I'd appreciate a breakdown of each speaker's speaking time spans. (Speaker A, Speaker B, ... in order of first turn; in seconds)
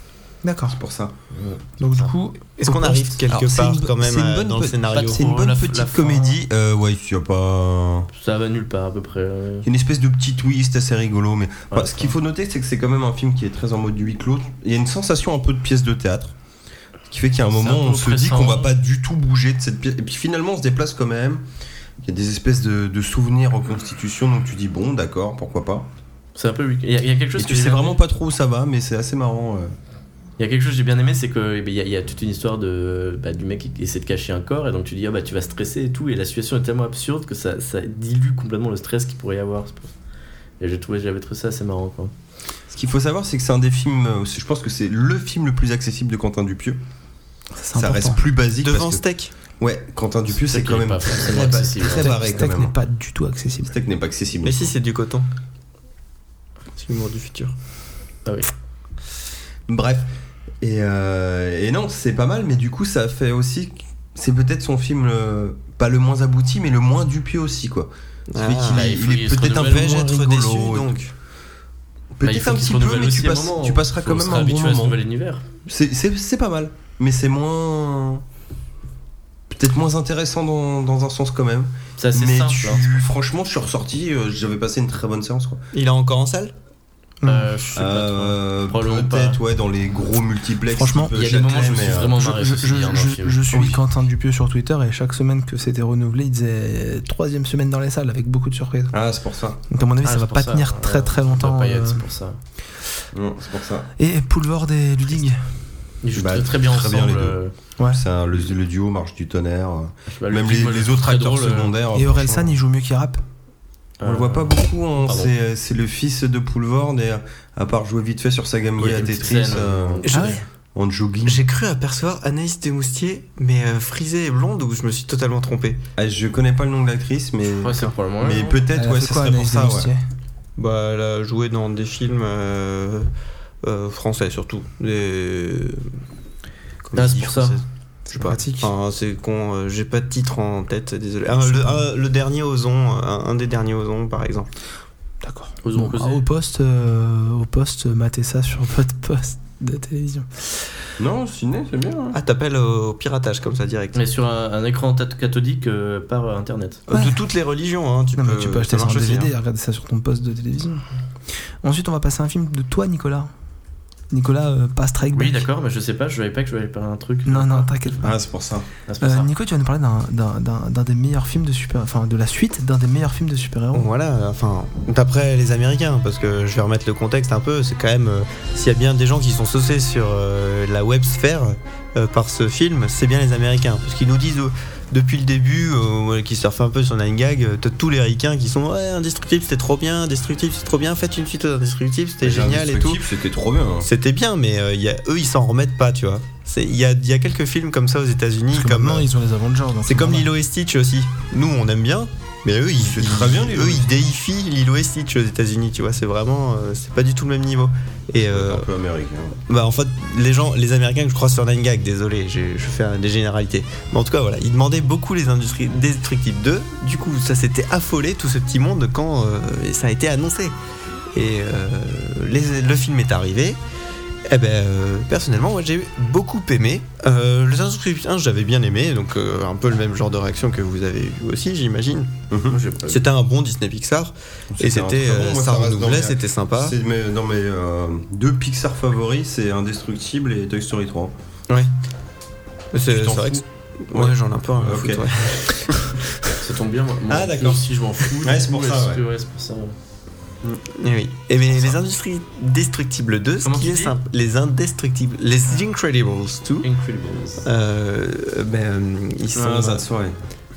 Speaker A: 0.4-0.8, 1.8-3.2, 47.5-48.2, 52.0-53.7, 87.2-87.5, 90.7-91.1, 92.1-99.0, 99.7-102.0, 104.0-105.4, 112.0-113.2, 120.1-120.4, 128.8-130.0, 138.1-138.7, 141.4-141.9, 145.2-150.5, 156.9-157.2, 158.2-160.8, 161.6-163.3, 164.1-165.4, 167.2-168.2, 169.0-173.9, 198.5-200.3
Speaker B: 0.7-1.1, 3.3-8.1, 9.6-16.4, 17.1-21.4, 22.0-25.9, 27.4-29.7, 42.7-46.8, 47.8-49.0, 49.6-52.7, 53.6-54.7, 59.7-60.1, 60.6-70.9, 72.2-75.0, 75.7-78.2, 79.5-85.6, 87.8-92.2, 93.5-93.8, 98.9-99.6, 103.1-103.9, 106.2-107.4, 107.9-112.6, 114.0-120.1, 120.8-121.5, 126.0-129.9, 151.0-152.2, 168.0-168.7, 192.2-193.9, 202.8-204.1, 208.2-209.4, 232.3-232.6, 234.5-241.1, 242.9-245.8, 247.1-247.6, 248.2-249.0, 259.3-260.2
Speaker C: 1.4-2.1, 4.9-6.4, 8.1-9.7, 11.7-12.2, 17.5-18.7, 26.4-28.0, 30.4-39.9, 40.6-42.1, 50.3-52.1, 58.3-58.5, 68.7-70.0, 72.2-75.5, 82.0-82.9, 87.2-89.4, 91.2-93.5, 100.0-102.4, 106.0-107.5, 110.1-111.7, 114.0-115.3, 118.8-120.4, 127.5-128.6, 136.9-137.6, 145.6-146.2, 153.9-156.8, 165.1-168.0, 168.9-169.3, 232.5-233.1, 246.4-249.8, 253.4-253.9, 256.6-257.5
Speaker D: 2.6-5.3, 48.6-49.3, 54.4-55.3, 56.8-57.5, 68.3-68.8, 69.6-71.1, 85.7-86.5, 120.1-120.4, 121.2-125.8, 130.6-133.1, 133.6-135.8, 136.8-144.5, 152.1-154.0, 156.9-159.3, 173.7-193.0, 193.8-199.1, 199.8-208.7, 209.5-220.6, 221.1-223.6, 224.3-232.1, 232.9-236.8, 242.7-245.6, 250.7-256.7, 257.4-259.8